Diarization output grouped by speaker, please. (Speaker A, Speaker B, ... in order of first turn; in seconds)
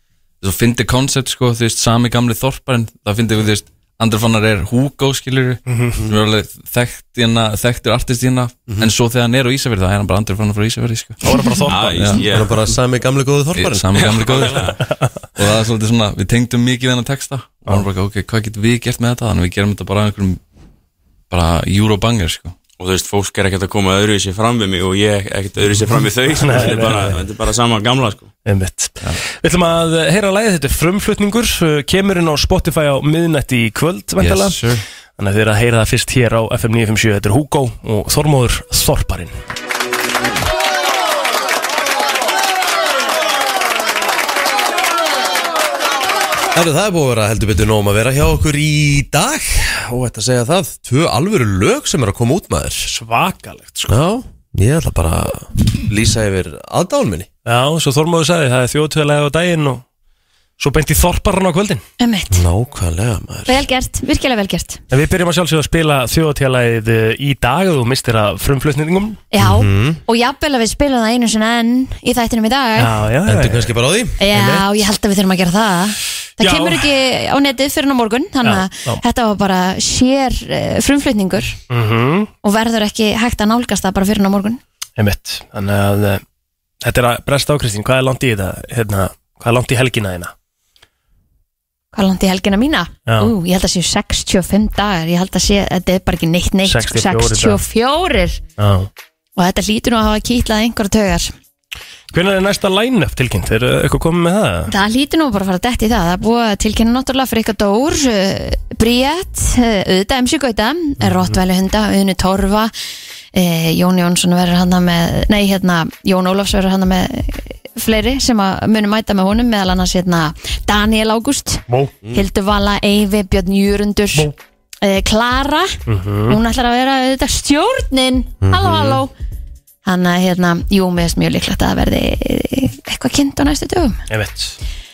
Speaker A: 0.4-11.2, 12.0-12.2, 13.6-14.7, 15.4-20.4, 21.3-22.6, 34.2-34.8
Speaker B: 5.7-6.0, 11.2-12.2, 26.4-27.2, 28.4-39.4, 52.9-54.0, 57.5-59.8, 60.6-61.8, 64.9-69.2, 72.8-73.7, 76.4-76.9, 78.4-79.0, 81.7-82.3, 85.0-86.2, 86.8-90.3, 93.1-93.3, 96.6-97.6, 98.6-98.9, 102.1-104.7, 125.9-126.4, 134.1-134.6
Speaker C: 11.7-12.7, 13.9-14.8, 22.8-28.3
Speaker D: 12.3-14.6, 46.5-52.9, 53.9-57.3, 62.3-63.6, 69.4-70.0, 73.2-74.6, 128.4-129.0
Speaker E: 62.0-62.5, 63.5-64.8, 69.3-72.9, 74.2-81.6, 82.4-84.6, 91.9-98.4, 99.4-101.3, 104.7-112.7, 113.3-124.3, 124.8-129.1, 129.8-134.0